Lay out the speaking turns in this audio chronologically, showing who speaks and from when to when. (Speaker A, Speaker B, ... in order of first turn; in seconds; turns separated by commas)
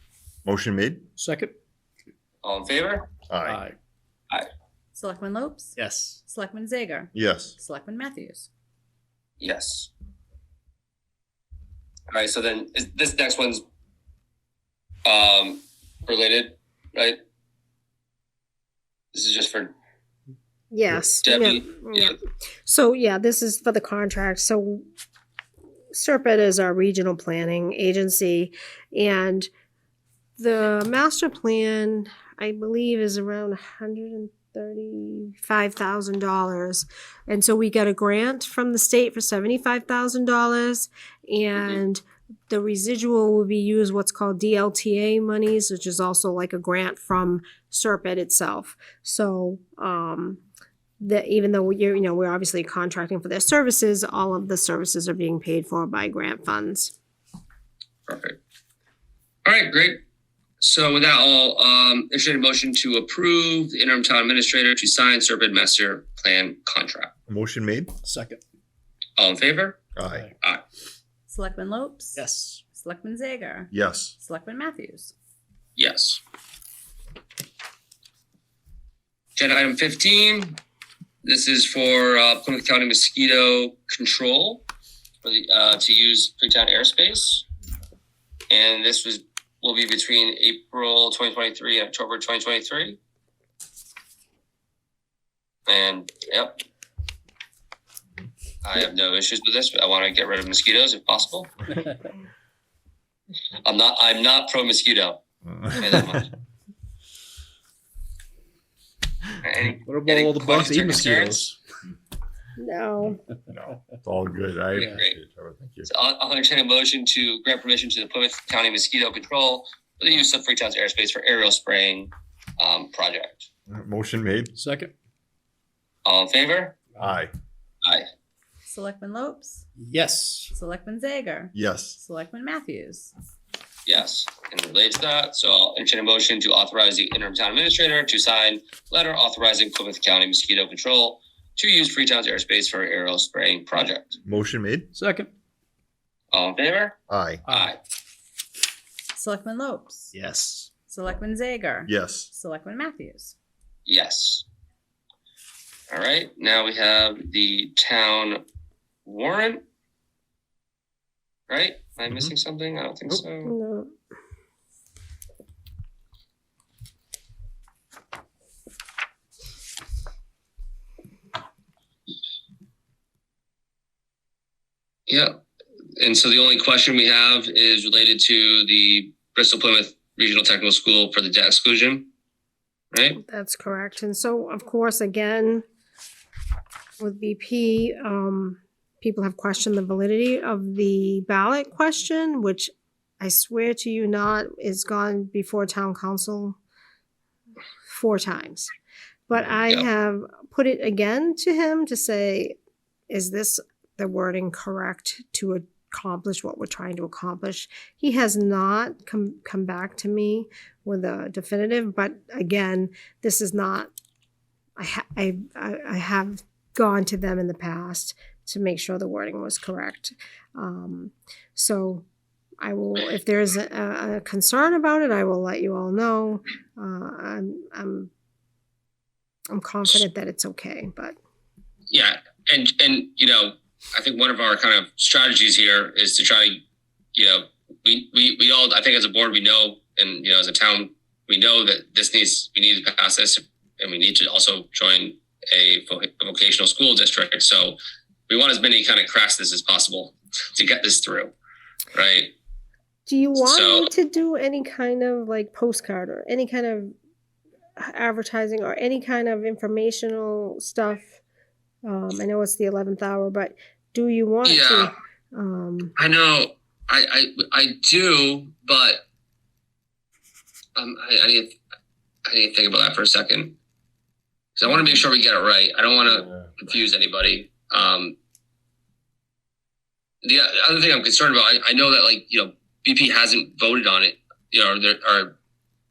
Speaker A: 0.4-1.1, Speaker B: 1.2-1.6, Speaker C: 2.4-3.1, Speaker A: 3.3-3.6, Speaker B: 3.4-3.8, Speaker D: 4.9-8.5, Speaker B: 5.8-6.2, Speaker A: 7.1-7.5, Speaker C: 9.4-9.9, Speaker C: 12.1-13.6, Speaker C: 15.1-17.2, Speaker C: 19.1-19.7, Speaker E: 20.7-24.9, Speaker C: 21.2-22.2, Speaker E: 25.9-29.5, Speaker E: 30.4-50.4, Speaker E: 51.0-56.9, Speaker C: 58.1-58.4, Speaker C: 59.5-60.0, Speaker C: 60.6-67.1, Speaker A: 67.3-68.0, Speaker B: 68.0-68.4, Speaker C: 69.2-69.8, Speaker A: 70.0-70.3, Speaker D: 71.3-75.1, Speaker B: 72.2-72.6, Speaker A: 73.7-74.2, Speaker C: 75.8-76.2, Speaker C: 79.4-80.6, Speaker C: 81.2-84.6, Speaker C: 85.2-87.5, Speaker C: 88.5-93.0, Speaker C: 95.7-96.6, Speaker C: 98.6-101.5, Speaker C: 103.6-106.3, Speaker A: 105.5-105.8, Speaker C: 109.4-111.5, Speaker B: 109.9-111.6, Speaker E: 112.6-113.2, Speaker A: 113.5-115.9, Speaker C: 114.8-115.2, Speaker C: 115.9-123.5, Speaker A: 123.7-124.5, Speaker B: 124.5-124.9, Speaker C: 126.0-126.8, Speaker A: 127.0-127.3, Speaker D: 128.7-129.7, Speaker B: 129.8-130.5, Speaker D: 130.5-133.1, Speaker A: 131.5-132.0, Speaker C: 133.9-144.2, Speaker A: 144.2-144.9, Speaker B: 144.9-145.3, Speaker C: 146.3-147.8, Speaker A: 147.1-147.4, Speaker D: 149.1-150.1, Speaker B: 150.1-150.7, Speaker D: 150.9-153.3, Speaker A: 151.9-152.3, Speaker C: 153.9-154.4, Speaker C: 155.9-158.4, Speaker C: 159.1-159.6, Speaker C: 161.5-163.5, Speaker E: 163.4-163.9, Speaker C: 175.1-175.4, Speaker C: 176.0-182.1, Speaker C: 182.9-183.2, Speaker E: 183.2-185.6, Speaker E: 187.0-196.6, Speaker E: 197.9-198.7, Speaker E: 199.3-202.6, Speaker E: 203.1-213.9, Speaker E: 214.8-222.0, Speaker E: 222.6-228.1, Speaker E: 229.5-231.2, Speaker C: 231.9-236.6, Speaker C: 237.2-251.3, Speaker C: 251.9-252.3, Speaker E: 253.1-256.9, Speaker C: 253.4-253.9, Speaker E: 257.8-261.2, Speaker E: 261.8-265.9, Speaker C: 264.4-264.9, Speaker C: 266.0-269.0, Speaker C: 270.8-271.6, Speaker C: 272.3-273.6, Speaker C: 274.6-278.2, Speaker C: 280.2-285.4